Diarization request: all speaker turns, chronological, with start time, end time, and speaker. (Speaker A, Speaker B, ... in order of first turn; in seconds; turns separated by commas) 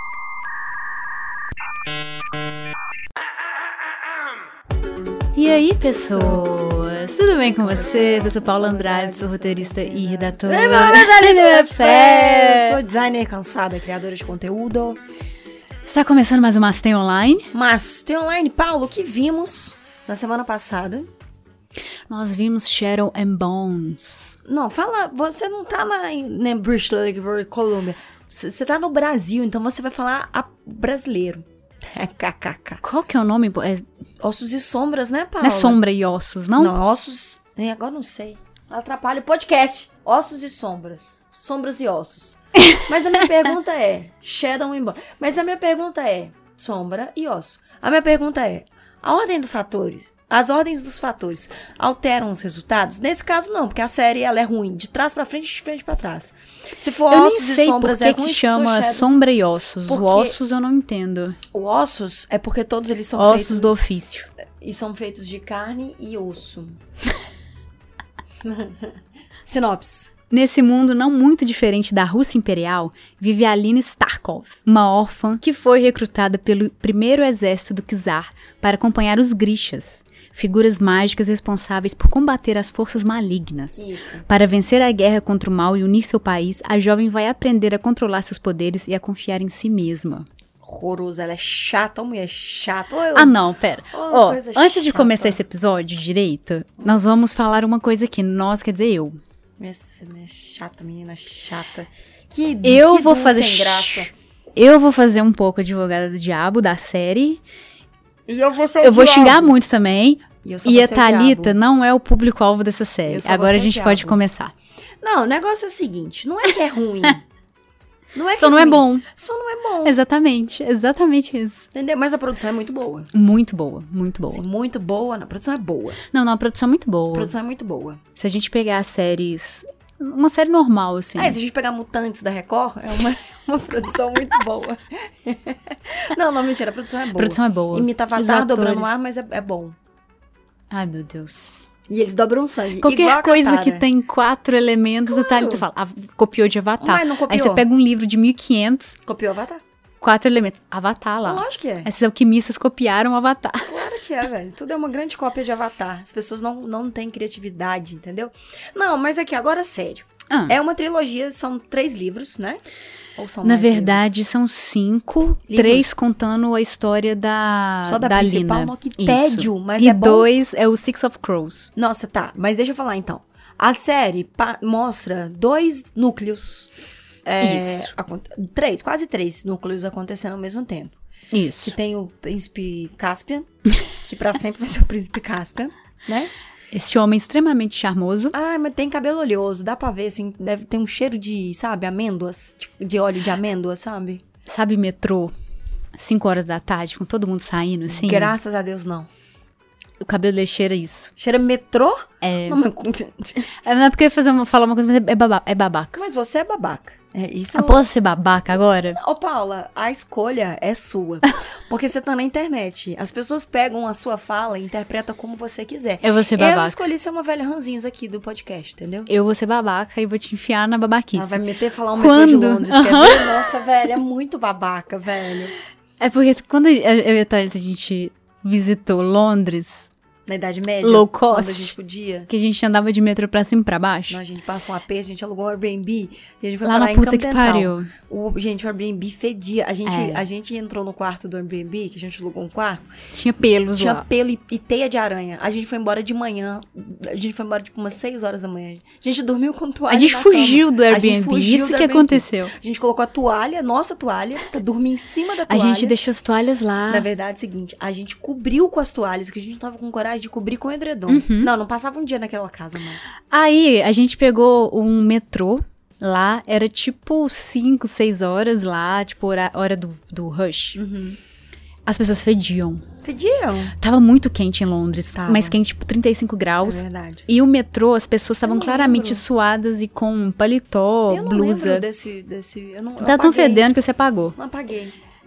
Speaker A: 5.3-12.8, Speaker B: 6.0-15.0, Speaker A: 15.8-17.5, Speaker B: 17.5-21.1, Speaker A: 22.1-24.4, Speaker B: 24.4-32.8, Speaker A: 32.8-33.8, Speaker B: 34.2-35.8, Speaker A: 35.4-36.7, Speaker B: 36.6-59.2, Speaker A: 57.1-61.4, Speaker B: 59.9-60.4, Speaker B: 61.5-63.7, Speaker A: 63.1-64.3, Speaker B: 64.6-66.8, Speaker B: 68.4-68.9, Speaker B: 69.5-70.1, Speaker A: 70.3-90.2, Speaker B: 83.8-84.2, Speaker B: 90.6-93.4, Speaker A: 93.1-99.2, Speaker B: 93.9-95.4, Speaker B: 96.8-97.2, Speaker B: 99.6-104.1, Speaker A: 102.6-107.4, Speaker B: 108.3-109.5, Speaker A: 108.8-114.5, Speaker B: 110.4-111.5, Speaker B: 113.1-114.2, Speaker B: 115.0-117.2, Speaker B: 118.1-120.0, Speaker A: 118.3-119.0, Speaker A: 119.8-121.7, Speaker B: 121.7-123.1, Speaker A: 123.1-124.4, Speaker B: 124.3-126.0, Speaker A: 126.1-127.3, Speaker B: 127.1-128.0, Speaker A: 128.2-131.4, Speaker B: 131.2-139.8, Speaker A: 137.1-138.9, Speaker A: 140.7-141.6, Speaker B: 141.9-143.8, Speaker A: 142.8-149.0, Speaker B: 145.1-145.7, Speaker B: 146.8-147.6, Speaker B: 149.0-149.6, Speaker A: 150.0-153.8, Speaker B: 151.2-151.9, Speaker B: 153.7-162.6, Speaker A: 160.3-160.6, Speaker B: 163.2-164.1, Speaker A: 163.4-171.7, Speaker B: 165.5-165.9, Speaker B: 167.8-170.3, Speaker B: 171.8-176.7, Speaker B: 177.2-181.0, Speaker A: 177.4-177.9, Speaker A: 181.3-181.8, Speaker B: 181.6-186.3, Speaker A: 186.7-188.3, Speaker B: 188.3-194.2, Speaker A: 194.5-195.3, Speaker A: 195.9-198.3, Speaker B: 197.9-199.1, Speaker A: 200.0-201.1, Speaker B: 201.2-203.4, Speaker A: 202.2-202.6, Speaker A: 203.5-205.9, Speaker B: 205.9-207.9, Speaker A: 207.5-209.0, Speaker B: 208.9-219.1, Speaker A: 216.0-216.8, Speaker A: 219.1-221.4, Speaker B: 221.1-225.5, Speaker A: 221.9-223.4, Speaker A: 226.0-229.9, Speaker B: 230.2-232.3, Speaker A: 230.8-231.7, Speaker A: 232.3-234.2, Speaker B: 234.1-242.8, Speaker A: 236.6-237.9, Speaker A: 239.8-240.2, Speaker A: 243.1-244.1, Speaker B: 243.7-255.9, Speaker A: 249.9-252.5, Speaker A: 255.5-257.1, Speaker B: 256.9-263.1, Speaker A: 261.1-261.5, Speaker A: 263.3-270.8, Speaker B: 270.8-271.2, Speaker A: 271.9-272.8, Speaker B: 273.0-273.8, Speaker A: 273.8-281.8, Speaker B: 275.1-275.6, Speaker B: 276.6-277.3, Speaker B: 278.4-279.2, Speaker B: 281.1-283.7, Speaker A: 283.0-284.4, Speaker B: 284.4-284.9